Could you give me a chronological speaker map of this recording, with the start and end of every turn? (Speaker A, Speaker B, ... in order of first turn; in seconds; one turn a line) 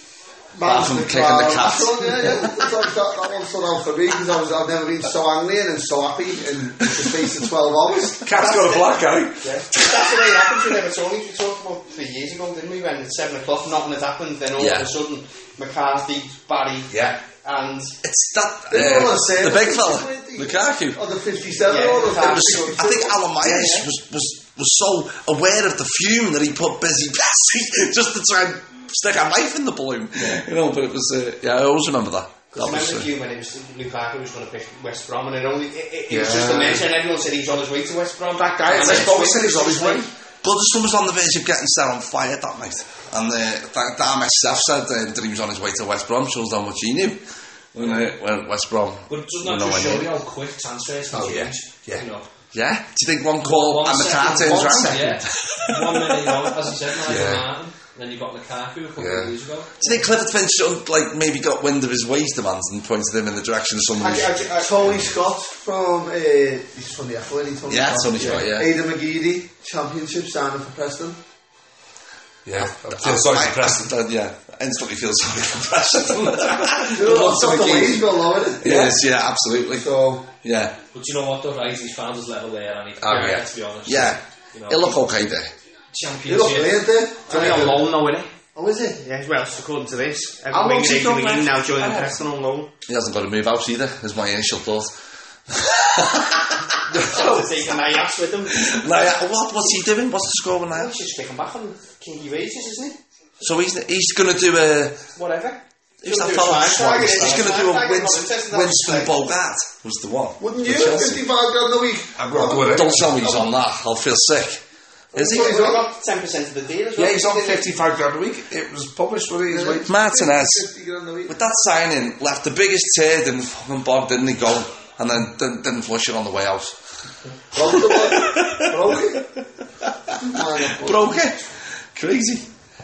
Speaker A: 0.5-8.3
Speaker B: 0.6-2.7
Speaker C: 8.2-9.5
Speaker D: 8.4-17.9
Speaker B: 14.6-14.9
Speaker C: 16.9-17.2
Speaker B: 18.0-21.0
Speaker A: 18.7-23.1
Speaker D: 21.6-23.9
Speaker B: 22.0-33.1
Speaker D: 32.5-40.1
Speaker C: 36.1-36.9
Speaker C: 38.4-40.1
Speaker B: 40.4-47.2
Speaker B: 47.7-50.1
Speaker E: 49.1-52.3
Speaker C: 51.1-52.0
Speaker B: 52.5-56.3
Speaker E: 53.4-59.8
Speaker C: 54.3-55.2
Speaker C: 57.0-57.5
Speaker C: 59.0-59.3
Speaker B: 59.8-64.4
Speaker D: 64.0-64.9
Speaker A: 64.6-71.2
Speaker B: 67.7-68.7
Speaker C: 72.5-74.0
Speaker B: 72.6-79.9
Speaker A: 76.9-79.0
Speaker A: 79.7-80.3
Speaker B: 80.4-80.8
Speaker E: 80.9-85.0
Speaker C: 83.0-83.5
Speaker B: 83.9-85.5
Speaker E: 85.9-87.4
Speaker A: 86.3-87.9
Speaker D: 87.3-88.3
Speaker A: 88.5-89.0
Speaker D: 88.9-92.7
Speaker B: 90.5-92.1
Speaker B: 92.9-94.9
Speaker B: 95.5-97.4
Speaker D: 96.9-98.8
Speaker B: 98.5-100.9
Speaker D: 100.7-103.0
Speaker B: 103.4-105.0
Speaker D: 105.1-109.1
Speaker B: 106.0-111.2
Speaker A: 110.4-112.8
Speaker C: 112.2-113.3
Speaker B: 112.6-114.6
Speaker B: 115.1-115.6
Speaker A: 115.1-115.9
Speaker D: 115.2-117.7
Speaker C: 117.0-119.9
Speaker A: 119.5-121.4
Speaker B: 119.9-120.7
Speaker B: 121.3-126.8
Speaker A: 127.5-129.3
Speaker B: 127.6-132.5
Speaker A: 130.2-131.4